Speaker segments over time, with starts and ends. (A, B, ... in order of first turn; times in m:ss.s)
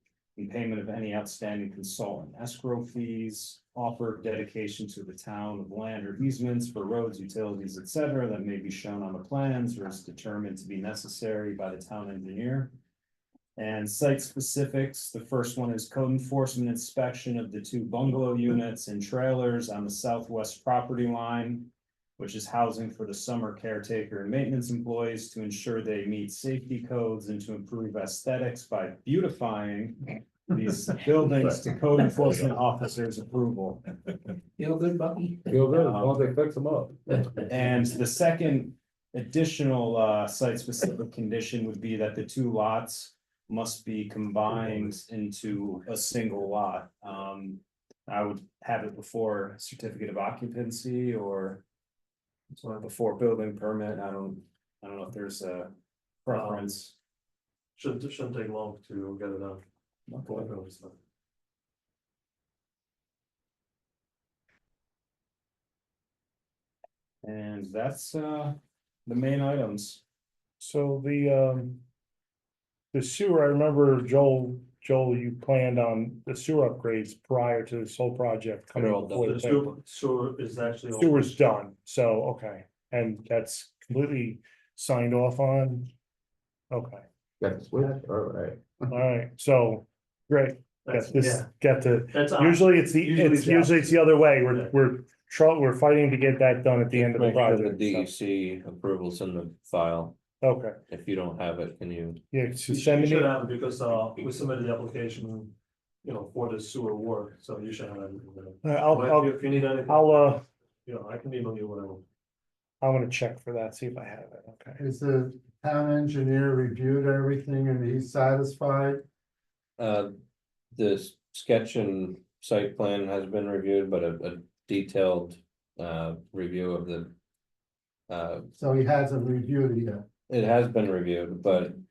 0:00.4-0:12.7 A
0:13.6-0:33.8 A
0:35.5-0:37.2 B
0:35.6-0:36.2 A
0:37.4-0:51.6 A
0:52.5-0:52.9 C
0:52.8-0:55.7 A
0:56.2-0:57.0 A
0:56.3-0:56.6 C
0:57.8-0:59.6 C
1:00.2-1:01.0 C
1:07.2-1:10.0 A
1:10.6-1:11.8 D
1:12.9-1:19.7 D
1:19.2-1:21.4 C
1:21.0-1:25.9 D
1:26.7-1:27.0 D
1:27.4-1:28.8 B
1:28.9-1:38.1 D
1:30.8-1:31.5 C
1:32.1-1:34.7 C
1:36.9-1:40.2 E
1:40.4-1:40.8 D
1:40.9-1:42.2 E
1:42.3-1:43.4 D
1:42.7-1:50.2 C
1:48.6-1:50.4 D
1:50.9-1:52.0 C
1:52.8-1:54.8 D
1:54.8-1:59.0 F
1:59.8-2:00.1 E
2:00.8-2:07.1 E
2:08.1-2:08.4 E
2:08.6-2:10.0 F
2:10.3-2:11.8 E